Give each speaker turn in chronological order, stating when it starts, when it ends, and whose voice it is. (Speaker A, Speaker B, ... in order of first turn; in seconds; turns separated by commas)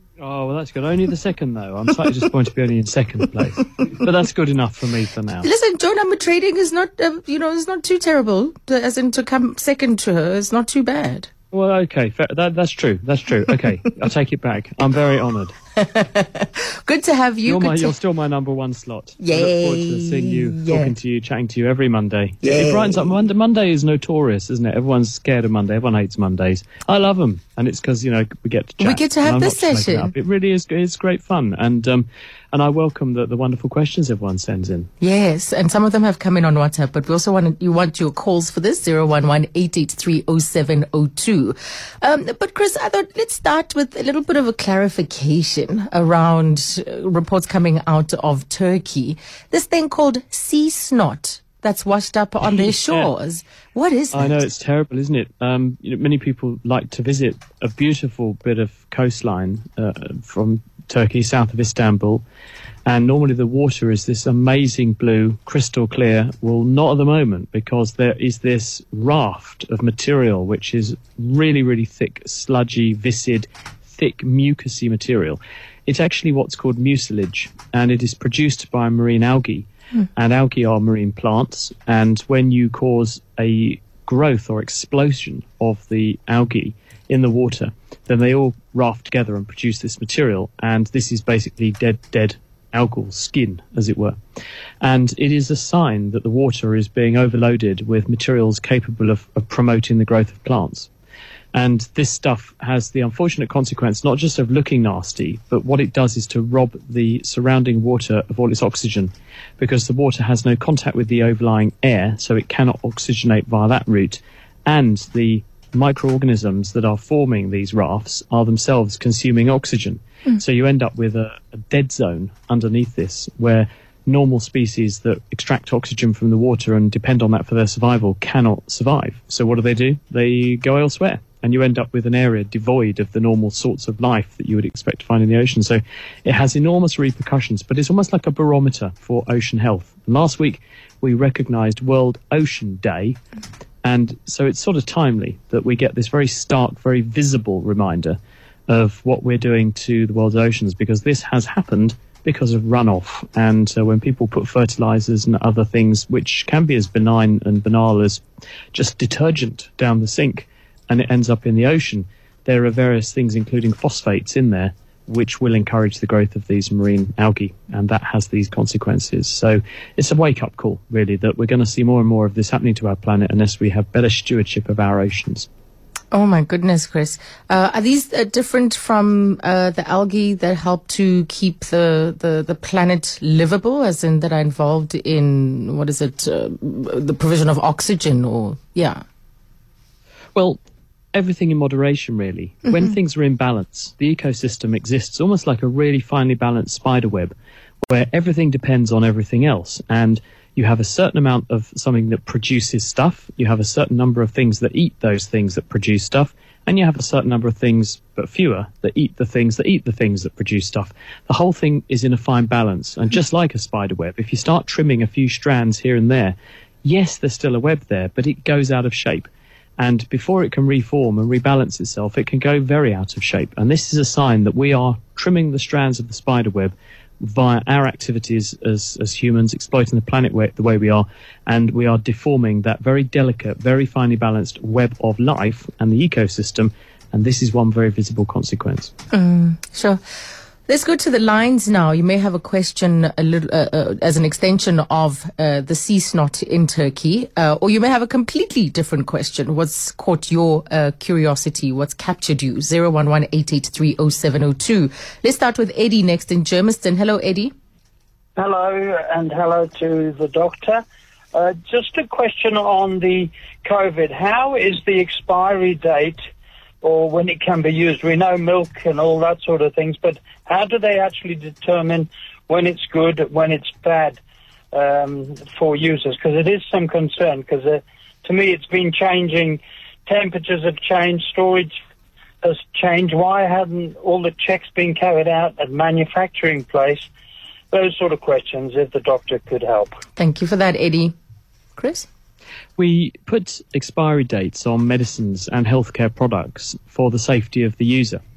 Speaker A: 0.2-5.5, Speaker B: 5.4-11.3, Speaker A: 11.5-15.5, Speaker B: 15.8-17.9, Speaker A: 17.4-34.9, Speaker B: 19.2-20.9, Speaker B: 28.8-30.1, Speaker B: 35.0-54.4, Speaker A: 52.5-53.1, Speaker A: 54.1-62.2, Speaker A: 62.9-94.2, Speaker A: 94.8-100.9, Speaker A: 101.5-143.2, Speaker A: 143.8-148.2, Speaker A: 148.7-158.2, Speaker A: 158.7-175.5, Speaker B: 176.1-189.0, Speaker A: 191.1-197.3, Speaker A: 197.8-238.9, Speaker B: 239.1-240.0, Speaker B: 240.7-257.5, Speaker C: 258.4-260.8, Speaker C: 261.3-266.2, Speaker C: 266.8-274.2, Speaker C: 274.7-281.7, Speaker C: 282.4-287.0, Speaker C: 287.7-289.9, Speaker B: 290.1-291.1, Speaker B: 291.8-292.1, Speaker A: 292.8-298.2